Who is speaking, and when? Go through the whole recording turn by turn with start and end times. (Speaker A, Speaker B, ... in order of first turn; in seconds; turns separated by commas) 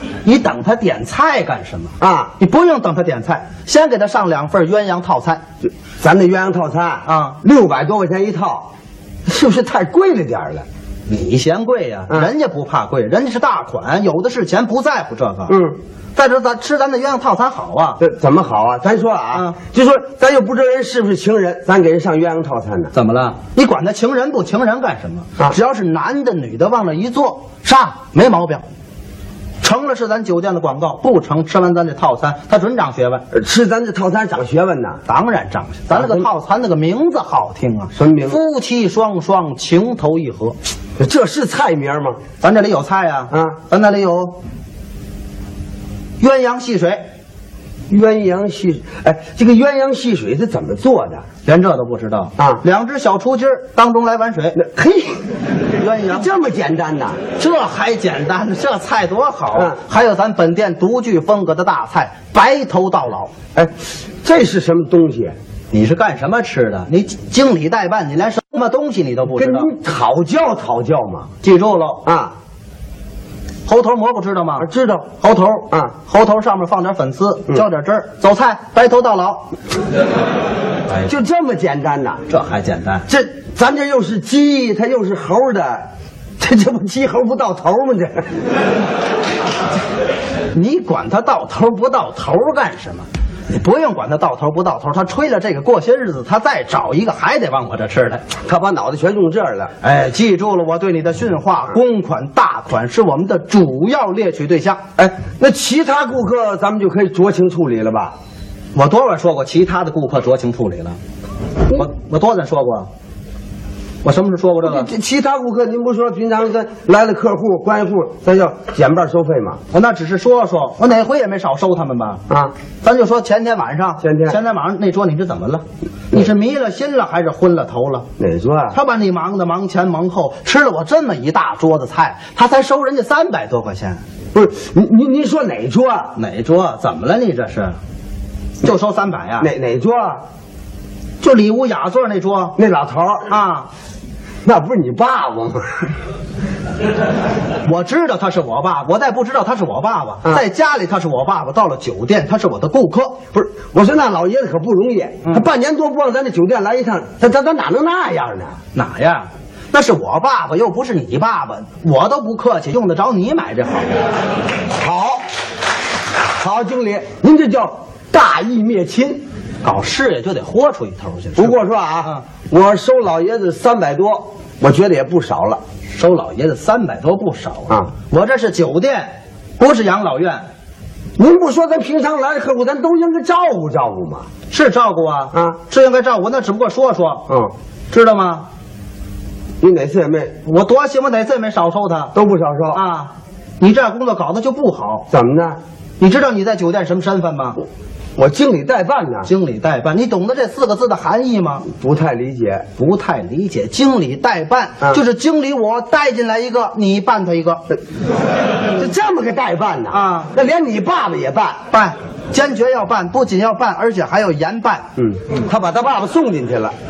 Speaker A: 0.2-5.4, Speaker B: 2.0-2.3, Speaker B: 6.0-8.7, Speaker A: 7.0-7.4, Speaker B: 9.3-10.7, Speaker A: 11.1-15.6, Speaker B: 15.5-15.8, Speaker A: 16.1-18.0, Speaker B: 18.0-22.9, Speaker A: 22.9-28.6, Speaker A: 29.6-33.2, Speaker B: 33.3-35.0, Speaker A: 35.1-40.6, Speaker B: 35.9-36.3, Speaker B: 37.9-38.4, Speaker B: 41.0-42.2, Speaker A: 42.4-44.4, Speaker B: 43.3-43.6, Speaker A: 46.2-47.0, Speaker B: 47.9-51.2, Speaker A: 51.4-54.6, Speaker B: 54.5-55.2, Speaker A: 55.8-56.3, Speaker B: 56.1-57.2, Speaker A: 57.4-63.3, Speaker B: 63.5-65.4, Speaker A: 65.7-69.7, Speaker B: 69.3-71.3, Speaker A: 71.4-72.0, Speaker B: 72.0-72.3, Speaker A: 73.7-79.5, Speaker B: 74.6-75.1, Speaker B: 81.1-82.2, Speaker A: 82.3-83.1, Speaker B: 83.1-85.9, Speaker B: 86.4-88.3, Speaker A: 90.5-98.2, Speaker B: 98.4-99.7, Speaker A: 99.8-104.8, Speaker B: 105.0-108.2, Speaker A: 108.8-111.0, Speaker A: 111.7-112.9, Speaker A: 114.0-114.9, Speaker B: 114.6-119.6, Speaker A: 119.7-122.2, Speaker A: 122.8-128.1, Speaker B: 124.0-124.4, Speaker B: 128.2-128.8, Speaker A: 128.7-134.0, Speaker B: 134.3-136.2, Speaker A: 136.2-137.8, Speaker A: 138.6-139.5, Speaker B: 139.4-140.2, Speaker A: 141.2-142.6, Speaker B: 142.6-143.3, Speaker A: 143.3-143.7, Speaker B: 144.4-145.9, Speaker A: 147.7-153.2, Speaker B: 153.3-158.6, Speaker A: 158.7-164.1, Speaker B: 164.8-165.2, Speaker B: 166.4-169.2, Speaker A: 169.6-172.2, Speaker B: 171.4-175.6, Speaker A: 175.9-180.4, Speaker B: 181.2-184.3, Speaker A: 184.5-187.2, Speaker B: 187.3-187.5, Speaker A: 187.9-188.5, Speaker B: 189.6-190.3, Speaker A: 190.4-192.1, Speaker B: 192.1-192.8, Speaker A: 192.7-195.1, Speaker B: 195.1-195.6, Speaker A: 196.0-197.6, Speaker B: 198.2-199.3, Speaker A: 199.2-201.7, Speaker B: 201.7-202.7, Speaker A: 202.8-207.6, Speaker B: 208.8-211.6, Speaker A: 209.9-210.3, Speaker A: 211.7-214.9, Speaker B: 215.0-216.8